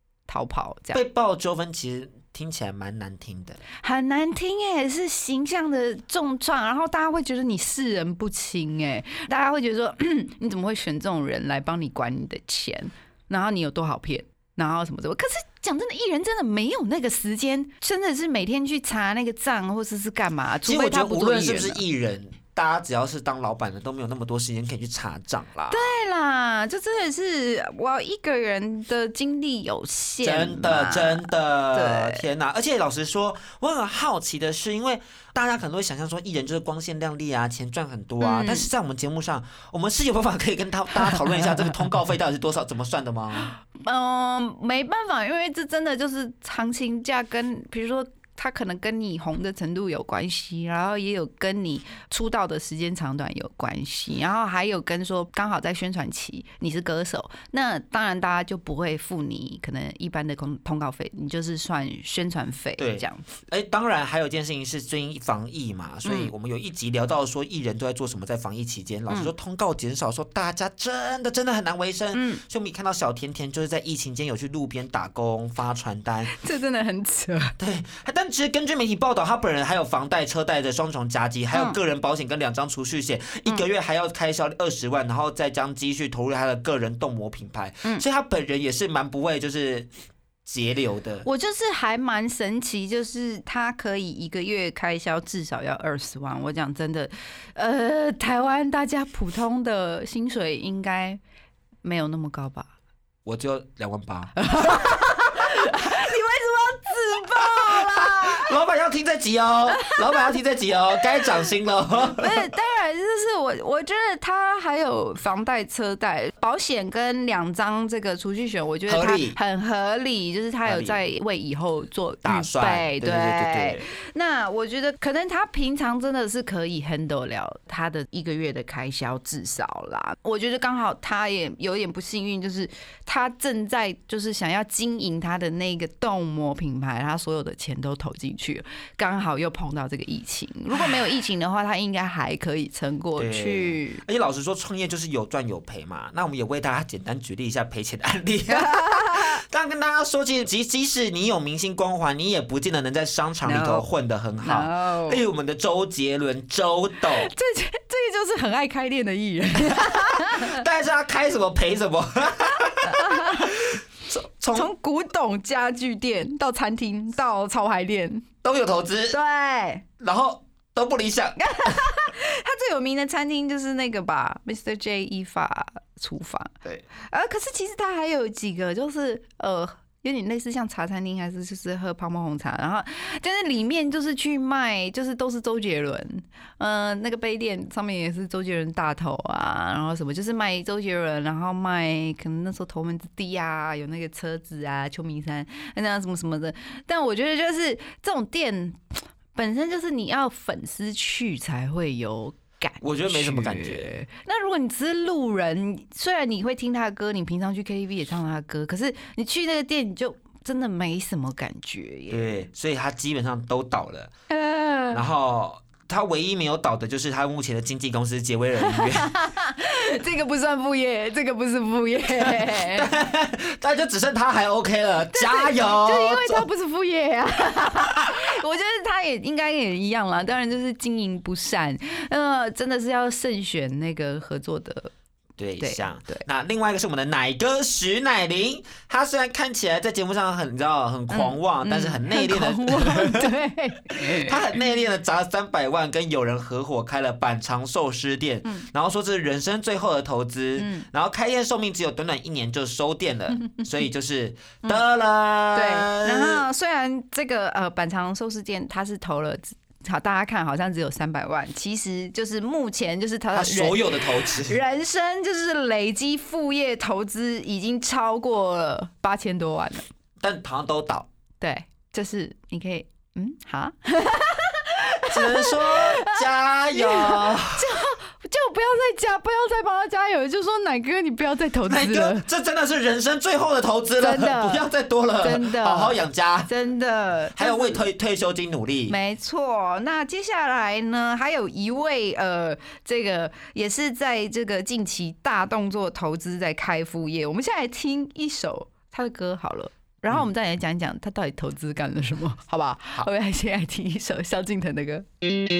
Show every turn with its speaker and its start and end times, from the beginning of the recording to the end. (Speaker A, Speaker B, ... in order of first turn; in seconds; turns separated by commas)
Speaker A: 0.3-1.0, Speaker B: 0.9-3.6, Speaker A: 3.8-21.8, Speaker B: 20.7-25.9, Speaker A: 25.7-32.2, Speaker B: 30.2-43.5, Speaker A: 38.2-38.7, Speaker A: 43.6-63.4, Speaker B: 62.8-76.3, Speaker A: 66.0-66.3, Speaker A: 72.1-72.4, Speaker A: 76.3-77.5, Speaker B: 77.6-89.9, Speaker A: 81.5-81.8, Speaker B: 90.5-91.3, Speaker A: 91.2-101.2, Speaker A: 101.8-102.7, Speaker B: 103.2-104.8, Speaker A: 104.4-108.5, Speaker B: 107.4-112.5, Speaker A: 109.7-110.4, Speaker A: 112.1-144.0, Speaker B: 118.9-119.4, Speaker B: 120.7-121.0, Speaker B: 122.2-123.8, Speaker B: 143.2-157.3, Speaker A: 148.5-149.4, Speaker A: 153.4-153.9, Speaker A: 154.4-155.2, Speaker A: 157.2-160.6, Speaker B: 159.7-164.7, Speaker A: 162.8-163.6, Speaker A: 164.5-168.2, Speaker B: 168.4-169.2, Speaker A: 169.1-169.8, Speaker B: 170.0-171.8, Speaker A: 171.4-176.5, Speaker A: 177.1-212.3, Speaker B: 202.8-203.9, Speaker B: 212.1-214.1, Speaker A: 214.3-215.0, Speaker B: 214.9-219.1, Speaker A: 218.6-222.9, Speaker B: 222.2-226.5, Speaker A: 225.1-234.9, Speaker B: 235.4-243.3, Speaker A: 235.6-236.2, Speaker A: 241.1-244.4, Speaker B: 243.9-256.5, Speaker A: 250.6-250.9, Speaker A: 255.5-269.9, Speaker B: 263.3-264.6, Speaker B: 270.2-271.1, Speaker A: 271.4-282.3, Speaker B: 275.1-277.8, Speaker B: 281.6-286.5, Speaker A: 284.0-284.7, Speaker A: 285.2-287.9, Speaker B: 287.4-289.0, Speaker A: 288.9-305.1